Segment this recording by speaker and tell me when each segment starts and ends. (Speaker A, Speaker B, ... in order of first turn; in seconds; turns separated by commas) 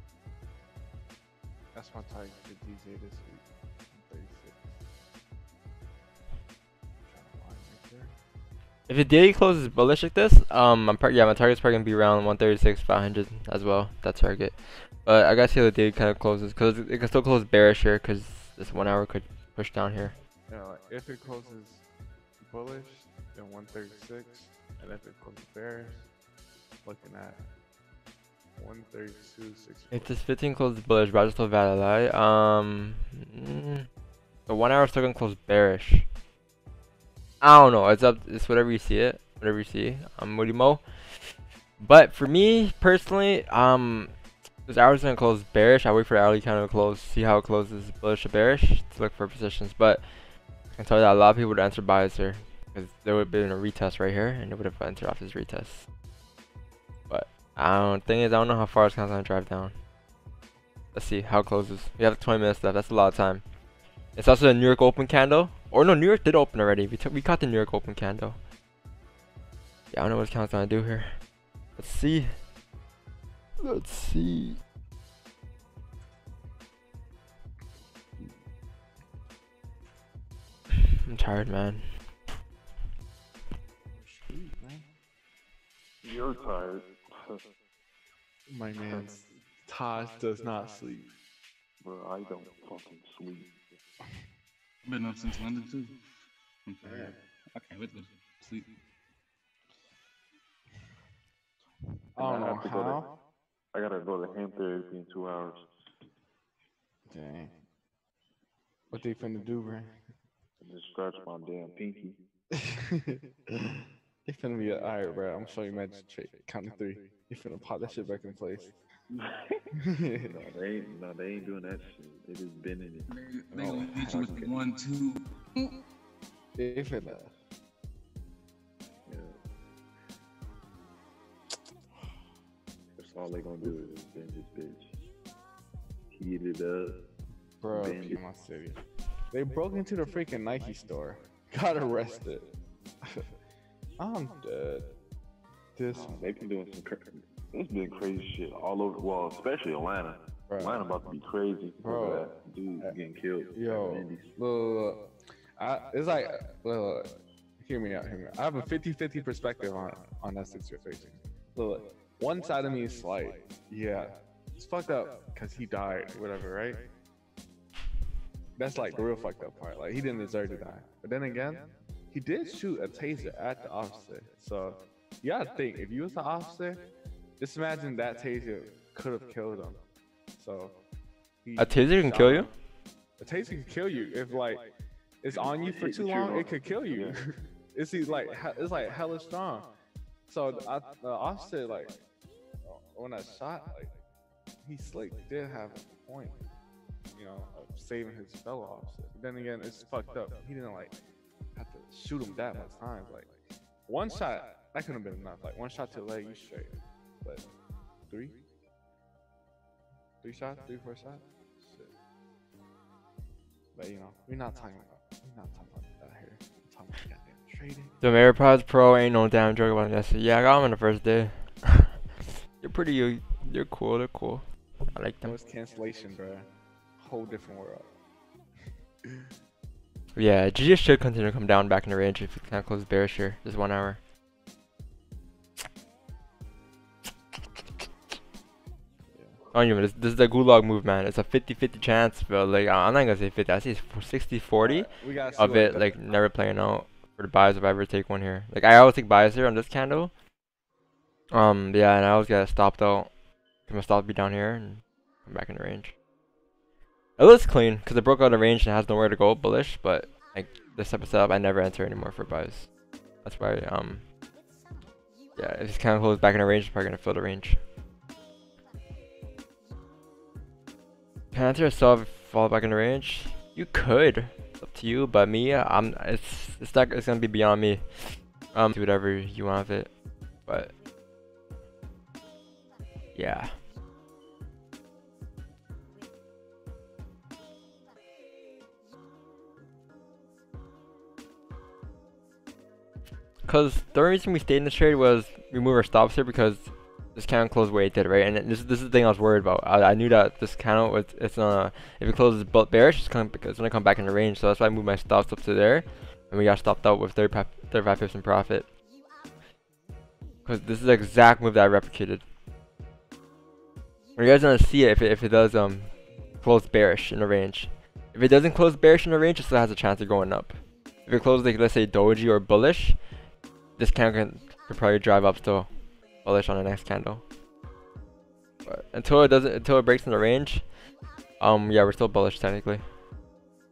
Speaker A: 1.7-4.7, Speaker A: 7.1-8.2, Speaker B: 8.9-20.2, Speaker A: 20.5-21.9, Speaker A: 22.4-26.1, Speaker A: 26.8-27.4, Speaker A: 28.6-30.1, Speaker B: 29.9-33.9, Speaker B: 34.5-36.1, Speaker B: 37.4-44.1, Speaker B: 44.7-50.0, Speaker B: 50.7-55.9, Speaker B: 57.1-59.7, Speaker B: 60.9-63.4, Speaker B: 64.2-68.4, Speaker B: 69.9-71.2, Speaker B: 71.8-72.4, Speaker B: 73.6-74.6, Speaker B: 81.0-82.0, Speaker A: 84.0-84.9, Speaker C: 86.0-87.4, Speaker A: 88.5-91.1, Speaker C: 88.8-89.3, Speaker C: 91.8-93.8, Speaker D: 94.8-96.0, Speaker D: 96.7-98.8, Speaker A: 96.8-97.2, Speaker A: 102.2-103.1, Speaker C: 102.2-103.1, Speaker C: 103.7-105.6, Speaker A: 107.1-107.6, Speaker A: 108.9-110.0, Speaker C: 110.6-112.2, Speaker A: 112.6-113.2, Speaker A: 114.3-118.8, Speaker C: 119.1-119.6, Speaker A: 119.8-120.4, Speaker C: 120.2-124.8, Speaker D: 123.1-125.8, Speaker A: 123.6-124.1, Speaker A: 126.5-127.3, Speaker C: 129.1-129.4, Speaker C: 133.0-135.0, Speaker C: 136.1-137.1, Speaker A: 137.6-142.5, Speaker C: 137.7-138.2, Speaker A: 143.0-143.3, Speaker A: 144.0-144.9, Speaker A: 145.8-146.2, Speaker C: 145.9-154.3, Speaker A: 150.5-150.9, Speaker A: 151.8-152.3, Speaker A: 153.5-166.9, Speaker A: 168.6-176.8, Speaker A: 177.4-179.8, Speaker A: 180.3-180.8, Speaker A: 181.4-182.5, Speaker B: 181.6-182.5, Speaker A: 183.2-184.7, Speaker A: 185.2-189.7, Speaker C: 185.3-187.2, Speaker A: 190.3-192.0, Speaker A: 192.7-193.9, Speaker A: 194.6-196.4, Speaker A: 197.1-201.0, Speaker A: 201.6-203.4, Speaker A: 203.9-207.5, Speaker A: 208.1-208.4, Speaker A: 210.2-211.9, Speaker A: 213.8-218.0, Speaker B: 218.0-221.9, Speaker B: 222.6-225.3, Speaker A: 225.2-227.9, Speaker B: 230.2-234.0, Speaker A: 239.1-239.4, Speaker B: 239.5-250.1, Speaker A: 244.6-246.2, Speaker B: 251.3-253.1, Speaker B: 253.7-255.9, Speaker B: 257.2-262.7, Speaker B: 263.2-264.0, Speaker B: 265.4-267.6, Speaker B: 271.3-279.9, Speaker B: 280.5-280.7, Speaker B: 283.1-283.6, Speaker B: 293.4-308.7, Speaker B: 310.5-312.2, Speaker B: 314.2-323.0, Speaker B: 323.8-325.7, Speaker B: 326.2-327.2, Speaker B: 328.7-330.6, Speaker B: 331.4-332.8